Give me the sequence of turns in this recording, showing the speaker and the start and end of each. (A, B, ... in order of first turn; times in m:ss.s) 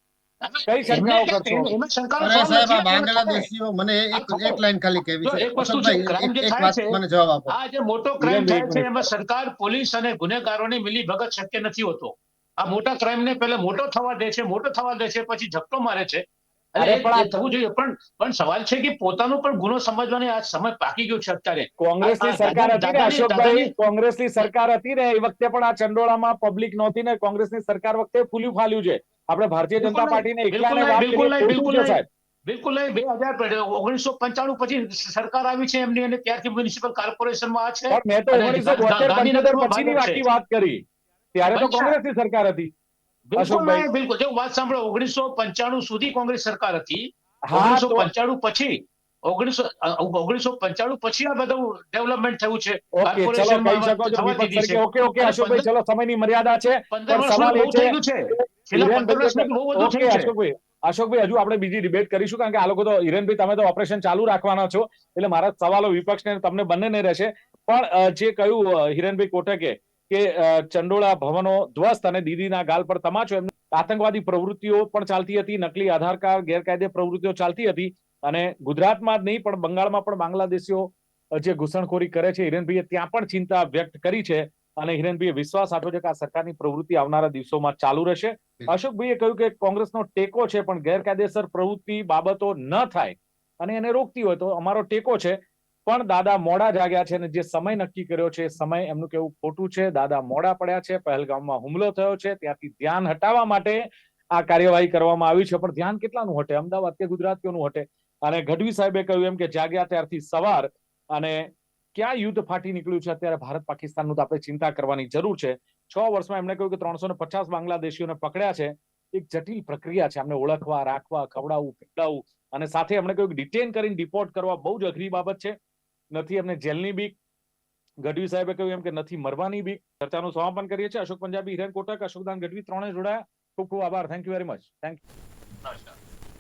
0:00.4-0:03.5 A
0:00.7-0:01.7 B
0:02.2-0:07.6 C
0:04.1-0:04.6 A
0:05.3-0:16.2 A
0:08.2-0:09.1 B
0:16.8-0:23.7 A
0:16.8-0:17.3 B
0:21.8-0:32.0 B
0:29.8-0:40.2 A
0:37.9-0:42.7 B
0:41.5-0:42.0 A
0:43.3-0:55.7 A
0:43.4-0:43.9 B
0:47.5-0:48.1 B
0:52.9-1:43.8 B
0:56.9-1:00.3 A
1:44.4-2:05.6 B
2:06.1-2:07.2 B
2:08.0-2:15.0 B
2:15.6-2:15.9 A